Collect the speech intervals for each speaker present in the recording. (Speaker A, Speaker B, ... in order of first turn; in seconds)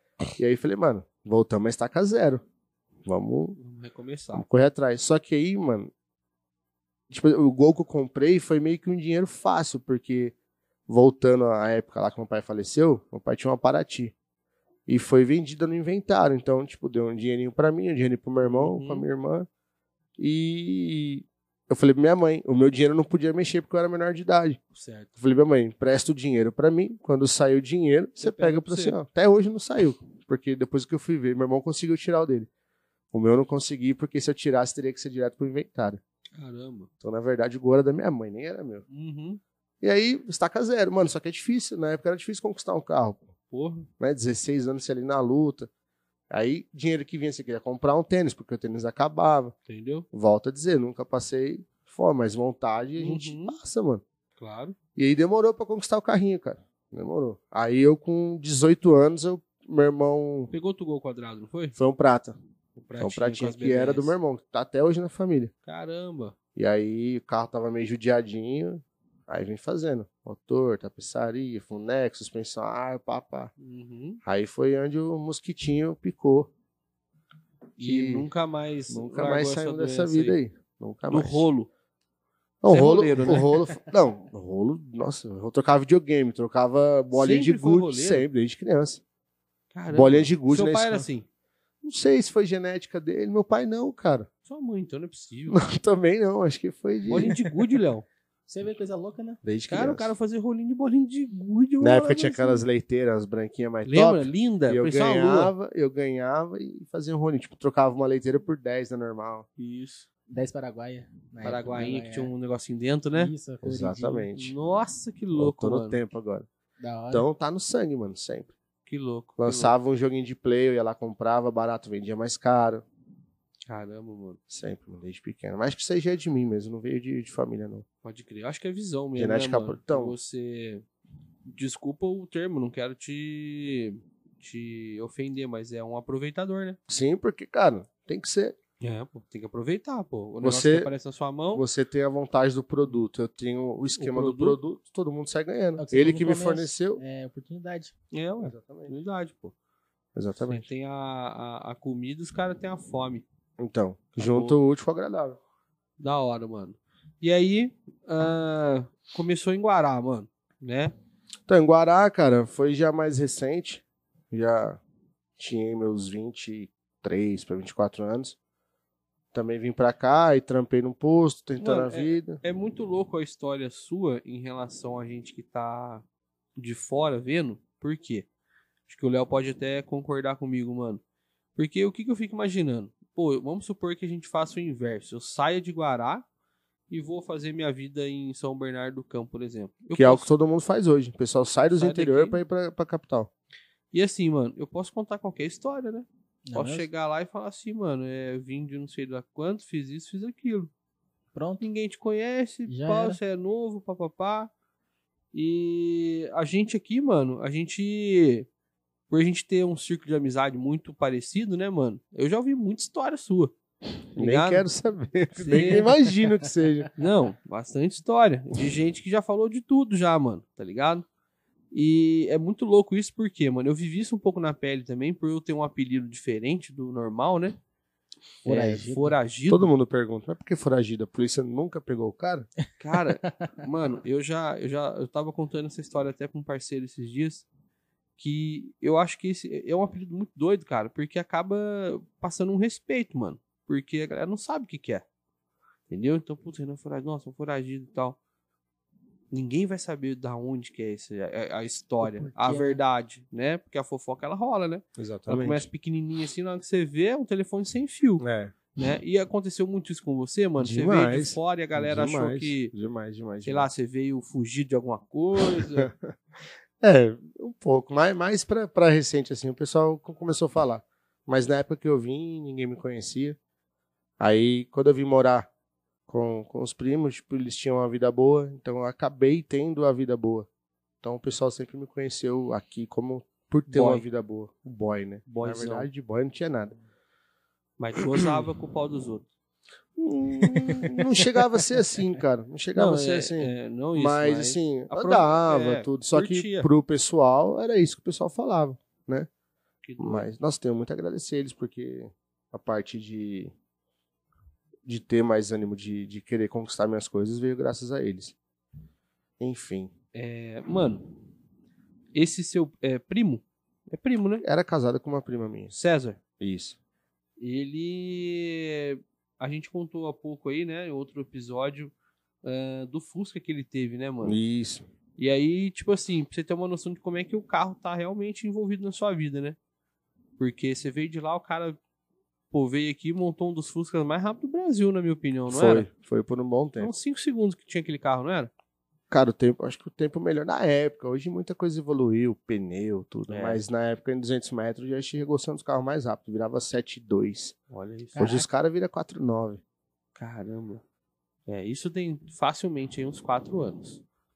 Speaker A: 0.3-2.4, 3.0-3.6, 4.3-5.9, 7.1-10.3, 10.9-14.1, 14.9-19.5, 20.2-24.6, 25.2-32.5, 33.1-36.0, 37.0-38.8, 39.8-43.3, 44.0-45.7, 46.3-49.5, 50.1-54.0, 55.0-60.5, 61.8-62.4, 63.0-65.5, 66.5-73.5, 74.2-76.5, 77.8-78.3, 78.9-81.5, 82.6-89.0, 89.9-91.1, 91.8-94.3, 95.5-97.3, 99.4-100.1, 101.8-109.5, 113.6-114.5, 115.3-116.5, 117.1-118.5, 119.4-122.8, 124.5-127.8, 129.2-130.2, 136.9-138.5, 140.4-140.9, 141.5-147.0, 148.4-148.9, 150.1-150.7, 153.6-155.4, 161.5-164.8, 165.4-168.3, 169.3-172.4, 189.9-193.3, 214.2-216.9, 229.5-232.5, 255.0-255.7, 258.2-258.6, 260.6-263.7, 265.4-266.1, 266.8-273.4, 274.2-275.5, 276.1-280.5, 281.0-286.7, 288.1-288.4, 289.9-299.3, 300.0-303.5, 304.9-308.4, 309.4-309.9, 314.4-315.7, 316.4-316.8, 324.2-324.8, 335.5-336.9, 339.1-347.5, 348.2-349.6
Speaker B: 3.6-4.4, 18.4-19.1, 24.7-25.1, 28.2-29.0, 36.4-36.9, 38.9-39.4, 43.5-43.9, 49.7-50.0, 53.0-53.6, 54.4-54.8, 60.5-61.8, 62.8-64.2, 65.7-66.3, 73.6-74.2, 77.8-80.3, 81.1-81.7, 82.7-83.5, 87.1-88.2, 89.7-91.2, 94.5-95.6, 97.1-98.0, 99.7-102.6, 103.8-105.5, 109.6-110.1, 111.4-113.3, 114.3-116.0, 118.8-119.7, 123.7-124.4, 128.0-130.8, 131.5-136.8, 138.8-141.6, 143.9-144.6, 148.1-149.5, 150.4-153.2, 154.2-154.6, 156.0-160.9, 171.6-176.0, 176.6-178.3, 178.9-181.0, 181.6-186.2, 186.9-190.3, 191.7-192.4, 193.9-200.7, 201.6-204.5, 205.3-208.5, 209.1-213.5, 214.1-214.6, 215.4-215.9, 216.9-221.1, 221.7-227.6, 228.4-229.7, 232.8-237.5, 238.2-245.0, 245.9-248.2, 249.3-258.2, 258.7-262.7, 263.4-265.9, 283.7-284.0, 285.3-285.9, 287.8-289.3, 292.7-296.7, 299.8-300.3, 310.1-311.0, 312.1-314.4, 315.7-316.2, 317.4-324.4, 325.2-329.6, 330.4-331.8, 332.5-335.9, 336.8-338.5, 343.3-343.6, 347.7-348.2, 350.1-350.8, 351.5-354.0
Speaker C: 98.5-99.4, 110.3-112.3, 113.1-114.3, 116.8-117.2, 145.8-147.9, 196.5-196.9, 201.3-201.6, 202.7-203.2, 228.4-229.2, 252.1-252.8, 290.5-291.6, 348.1-348.5